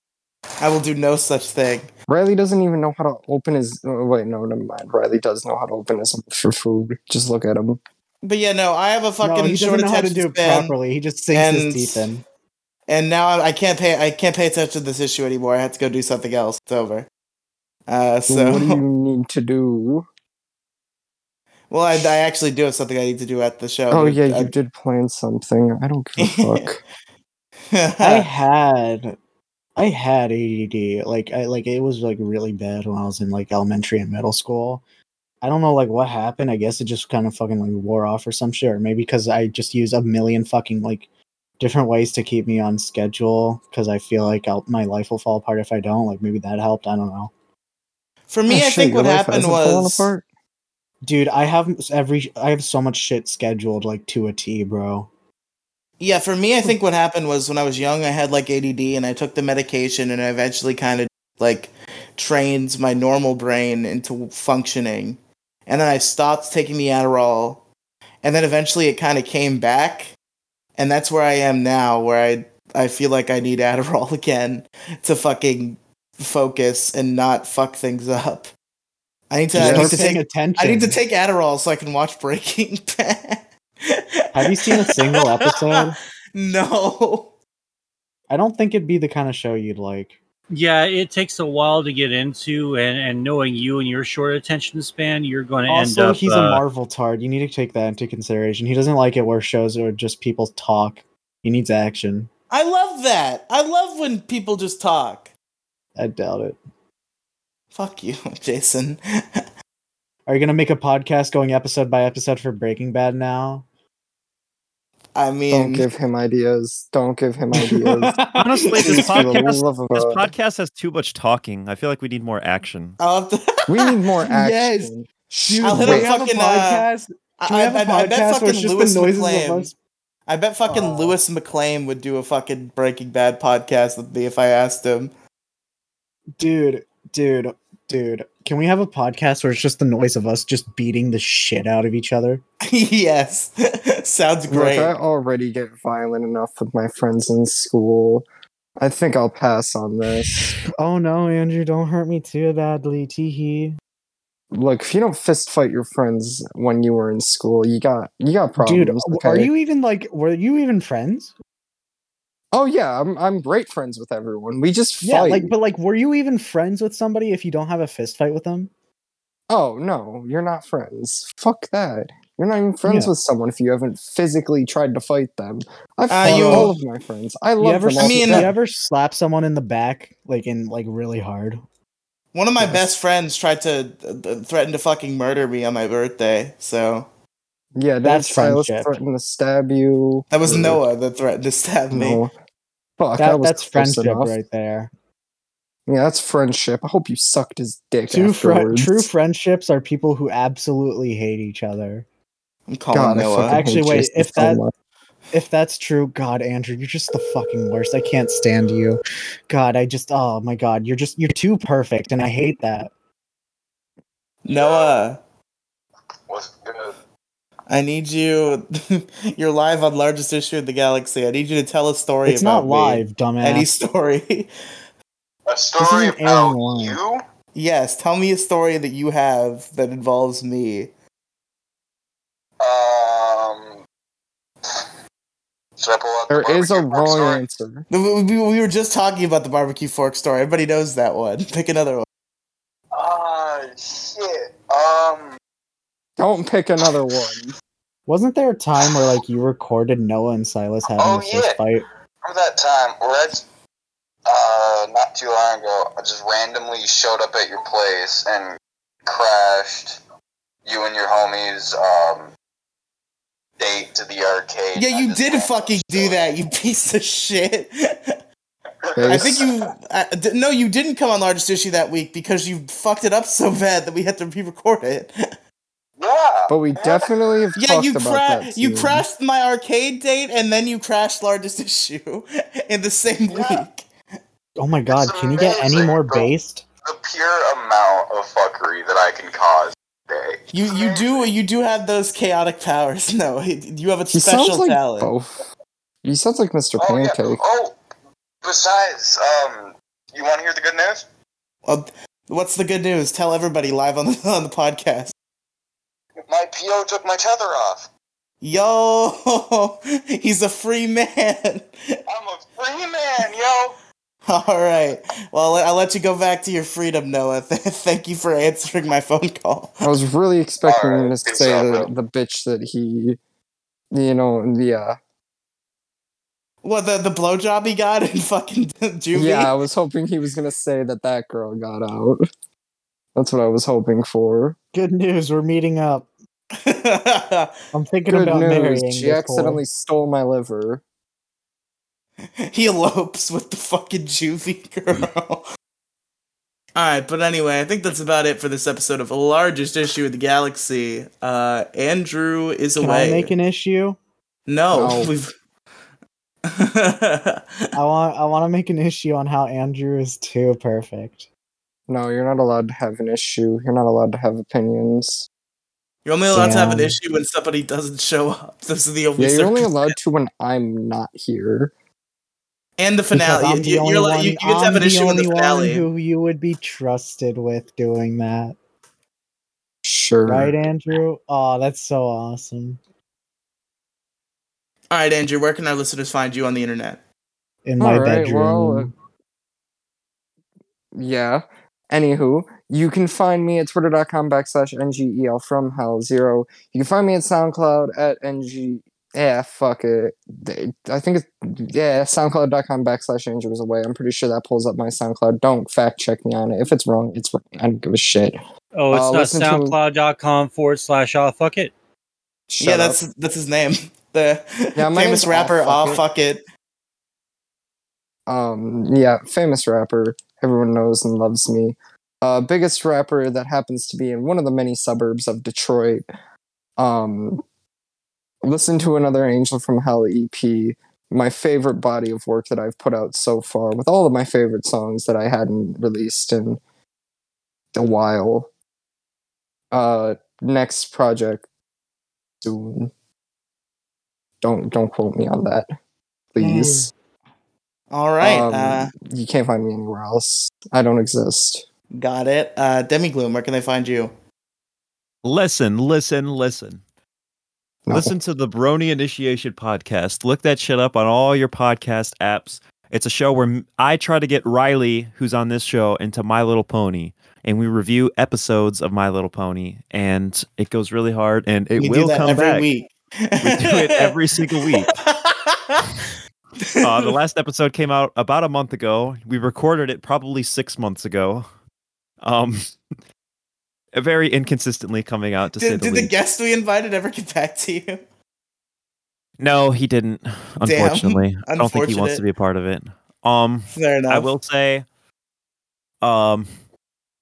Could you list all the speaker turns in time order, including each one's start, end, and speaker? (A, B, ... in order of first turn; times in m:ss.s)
0:00.6-0:01.9 A
0:02.1-0:07.8 B
0:08.2-0:10.7 A
0:09.2-0:12.2 C
0:11.3-0:12.1 A
0:12.9-0:17.1 A
0:17.9-0:18.8 A
0:18.3-0:20.1 B
0:21.7-0:24.5 A
0:23.9-0:26.8 B
0:26.2-0:26.7 A
0:27.7-0:28.3 A
0:28.0-0:29.2 C
0:29.8-0:34.8 C
0:35.4-0:41.1 C
0:41.6-0:47.3 C
0:48.3-0:50.1 A
0:48.5-0:50.2 B
0:51.0-0:55.1 C
0:56.0-1:07.6 A
1:08.2-1:10.1 A
1:10.8-1:18.5 A
1:19.3-1:27.3 A
1:19.5-1:21.0 C
1:19.5-1:20.0 B
1:24.3-1:26.0 C
1:28.3-1:30.2 C
1:30.5-1:36.6 D
1:35.7-1:42.3 C
1:42.5-1:45.3 A
1:46.0-1:46.6 C
1:47.7-1:49.4 A
1:50.3-1:53.6 C
1:55.1-1:55.9 A
1:55.5-1:58.2 B
1:57.6-1:59.2 C
1:58.3-2:03.0 E
1:58.8-2:00.3 B
2:03.0-2:03.9 A
2:03.7-2:06.1 B
2:04.3-2:09.7 C
2:05.6-2:06.9 A
2:07.4-2:09.7 A
2:10.3-2:15.1 A
2:10.6-2:11.1 C
2:16.4-2:22.4 C
2:22.6-2:24.9 A
2:24.5-2:28.2 B
2:28.8-2:30.6 B
2:30.8-2:33.8 C
2:34.5-2:39.5 B
2:38.6-2:41.3 C
2:42.5-2:45.5 B
2:45.0-2:48.7 C
2:49.5-2:58.5 B
2:52.8-2:53.1 C
2:56.1-2:56.7 A
2:56.3-2:56.7 C
2:57.6-3:01.6 C
2:58.0-2:58.5 A
3:02.3-3:07.1 A
3:07.8-3:10.8 B
3:08.0-3:08.9 C
3:10.3-3:12.2 A
3:11.9-3:12.3 B
3:13.0-3:14.3 B
3:13.2-3:14.9 C
3:15.9-3:19.1 B
3:18.1-3:22.0 C
3:22.7-3:23.6 A
3:22.9-3:24.7 B
3:23.4-3:24.6 C
3:25.3-3:32.9 C
3:34.4-3:35.2 A
3:34.5-3:34.9 F
3:36.3-3:36.9 F
3:37.7-3:44.5 A
3:42.2-3:43.7 C
3:45.4-3:47.2 F
3:45.8-3:47.0 C
3:47.5-3:50.9 A
3:52.6-3:53.8 F
3:55.8-3:57.4 F
3:56.3-3:57.8 B
3:57.9-4:02.0 A
4:02.9-4:05.4 F
4:06.2-4:07.5 B
4:08.1-4:11.8 C
4:11.0-4:11.6 F
4:12.2-4:13.4 F
4:14.3-4:20.0 F
4:20.6-4:22.3 F
4:23.6-4:26.2 F
4:24.8-4:28.1 A
4:28.8-4:29.7 F
4:29.0-4:29.5 B
4:29.0-4:35.1 A
4:36.0-4:37.4 F
4:36.5-4:39.0 B
4:37.6-4:43.8 A
4:43.3-4:43.6 F
4:44.6-4:46.6 C
4:44.9-4:46.3 F
4:46.8-4:51.3 F
4:50.5-4:55.1 A
4:54.1-4:55.3 B
4:56.0-4:57.4 B
4:56.8-4:57.7 F
4:58.4-5:01.0 F
5:01.6-5:05.1 A
5:06.2-5:07.9 F
5:08.4-5:11.7 A
5:12.1-5:13.8 F
5:14.3-5:19.8 A
5:19.8-5:23.2 B
5:20.6-5:21.9 F
5:23.9-5:25.0 B
5:26.6-5:29.5 A
5:29.1-5:32.2 B
5:33.1-5:34.6 B
5:34.7-5:36.1 C
5:36.6-5:37.5 A
5:37.7-5:39.6 C
5:38.1-5:40.8 B
5:42.4-5:45.4 A
5:46.8-5:53.3 A
5:52.8-5:54.0 C
5:54.5-5:55.3 A
5:54.7-5:55.1 B
5:56.5-5:57.7 A
5:57.7-6:01.3 C
6:01.9-6:05.3 B
6:06.0-6:09.9 A
6:06.3-6:07.0 C
6:09.2-6:11.7 B
6:12.8-6:15.9 A
6:13.1-6:18.6 C
6:19.8-6:20.5 B
6:20.2-6:22.8 C
6:24.9-6:27.0 A
6:27.6-6:28.9 C
6:27.8-6:28.9 B
6:30.9-6:48.4 B
6:48.8-6:51.7 D
6:48.9-6:49.8 B
6:52.5-6:53.0 B
6:52.6-6:56.4 A
6:54.8-6:56.0 B
6:58.3-7:06.0 B
7:06.8-7:07.4 B
7:08.4-7:16.6 B
7:17.7-7:18.5 B
7:19.7-7:21.4 B
7:22.4-7:22.9 B
7:24.4-7:25.7 B
7:26.3-7:26.9 B
7:27.9-7:28.9 A
7:28.2-7:31.6 B
7:32.0-7:34.1 A
7:35.2-7:36.8 E
7:37.9-7:52.7 E
7:51.8-7:56.0 A
7:53.4-7:55.0 E
7:56.6-7:57.1 A
7:56.8-8:01.5 E
8:02.2-8:02.7 E
8:03.9-8:06.1 E
8:05.6-8:08.0 A
8:09.4-8:14.9 E
8:10.6-8:12.2 A
8:13.7-8:14.3 A
8:16.0-8:16.5 E